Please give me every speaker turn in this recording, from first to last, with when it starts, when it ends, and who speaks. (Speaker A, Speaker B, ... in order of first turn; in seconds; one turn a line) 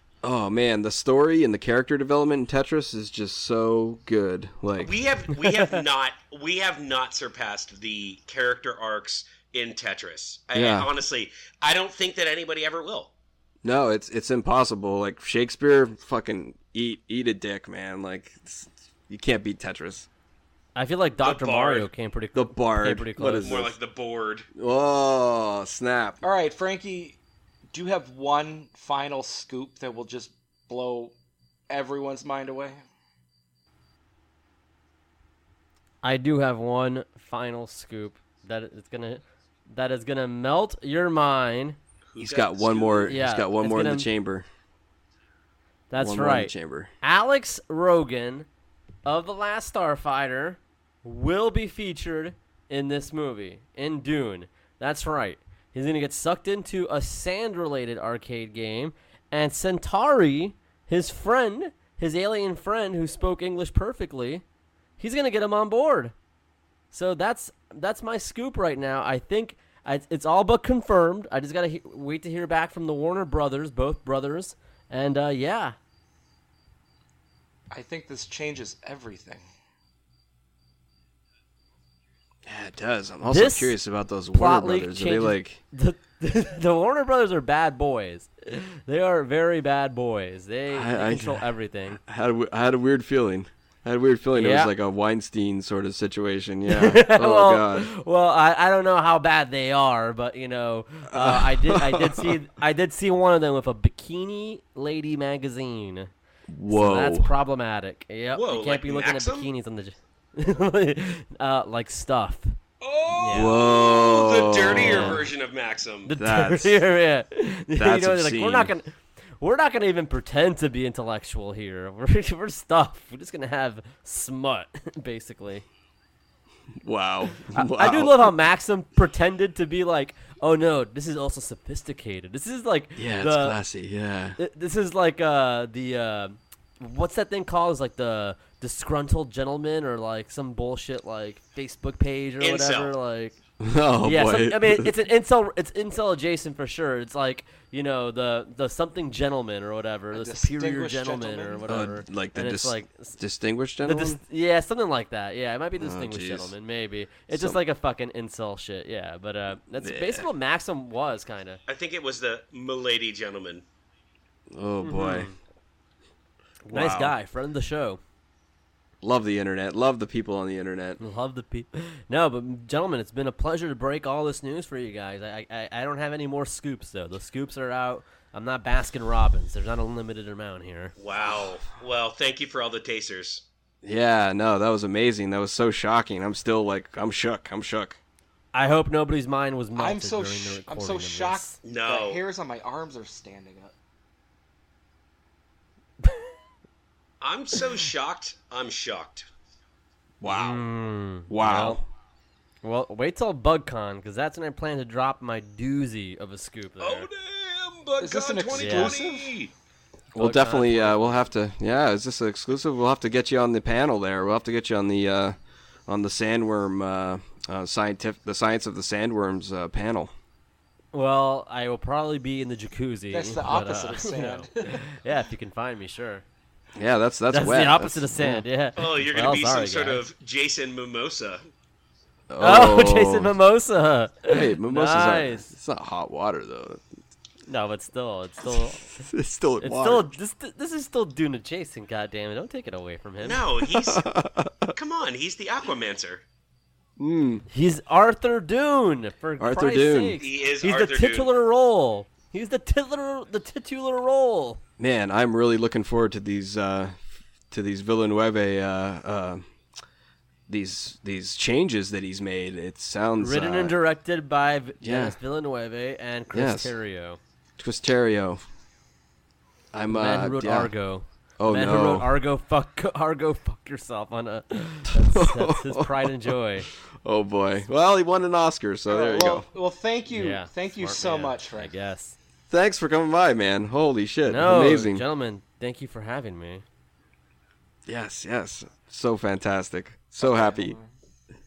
Speaker A: 0.2-4.9
Speaker B: 4.8-13.1
Speaker A: 10.5-10.9
Speaker A: 13.6-20.1
Speaker C: 20.8-23.6
Speaker B: 21.2-21.9
Speaker A: 22.3-23.7
Speaker B: 23.4-24.4
Speaker A: 24.5-26.2
Speaker D: 26.2-27.2
Speaker D: 27.7-31.1
Speaker D: 31.7-32.8
Speaker C: 36.0-41.8
Speaker B: 42.1-43.1
Speaker A: 42.2-44.5
Speaker C: 43.1-44.1
Speaker C: 45.9-48.5
Speaker A: 46.0-46.9
Speaker C: 49.0-64.4
Speaker C: 65.0-66.1
Speaker C: 66.9-75.8
Speaker D: 77.7-79.4
Speaker A: 82.4-85.6
Speaker C: 83.2-83.8
Speaker C: 84.3-92.0
Speaker A: 90.7-97.9
Speaker C: 94.3-94.7
Speaker C: 96.7-106.1
Speaker A: 101.1-102.4
Speaker A: 106.5-107.3
Speaker C: 106.7-112.5
Speaker B: 108.3-109.5
Speaker B: 112.8-116.1
Speaker C: 113.1-113.6
Speaker A: 113.3-115.3
Speaker C: 114.8-115.2
Speaker C: 116.1-125.7
Speaker A: 116.2-116.8
Speaker A: 117.7-118.7
Speaker A: 126.8-128.3
Speaker C: 127.5-133.6
Speaker A: 132.9-134.4
Speaker C: 134.4-143.3
Speaker B: 142.4-142.9
Speaker A: 143.6-144.9
Speaker C: 144.0-153.2
Speaker D: 150.1-151.7
Speaker A: 151.7-154.2
Speaker C: 153.8-161.6
Speaker A: 155.8-156.5
Speaker A: 157.3-157.6
Speaker A: 159.8-160.3
Speaker B: 161.7-163.6
Speaker A: 164.5-165.3
Speaker C: 164.8-165.3
Speaker C: 166.7-168.0
Speaker A: 166.7-167.2
Speaker A: 169.0-171.0
Speaker C: 171.0-180.9
Speaker B: 181.0-183.4
Speaker A: 183.8-188.0
Speaker C: 188.5-191.6
Speaker D: 189.7-193.7
Speaker B: 191.6-192.2
Speaker C: 196.0-196.3
Speaker B: 197.2-199.2
Speaker A: 200.2-200.7
Speaker C: 200.2-201.8
Speaker A: 201.3-201.9
Speaker C: 202.6-207.1
Speaker B: 206.8-209.5
Speaker D: 208.0-209.3
Speaker C: 208.5-208.9
Speaker A: 210.1-215.3
Speaker C: 210.2-211.2
Speaker A: 215.9-220.1
Speaker C: 220.9-226.2
Speaker D: 223.1-224.9
Speaker A: 226.7-228.4
Speaker C: 227.3-230.0
Speaker B: 228.8-231.4
Speaker A: 232.3-233.3
Speaker C: 232.4-235.5
Speaker A: 234.3-236.8
Speaker C: 237.4-239.1
Speaker A: 238.5-240.1
Speaker C: 239.6-243.4
Speaker B: 243.2-244.1
Speaker A: 243.7-244.7
Speaker B: 244.7-246.2
Speaker A: 247.0-247.4
Speaker C: 247.5-254.6
Speaker A: 249.4-250.2
Speaker B: 250.2-251.3
Speaker A: 254.8-259.4
Speaker A: 260.5-263.8
Speaker C: 263.2-267.2
Speaker A: 264.8-265.2
Speaker A: 266.3-266.7
Speaker A: 267.6-268.4
Speaker A: 269.7-270.7
Speaker C: 269.9-276.7
Speaker A: 271.4-272.1
Speaker A: 274.9-279.5
Speaker D: 278.9-281.7
Speaker C: 280.1-282.2
Speaker A: 282.5-285.0
Speaker C: 284.3-286.6
Speaker A: 287.9-290.8
Speaker D: 290.2-290.9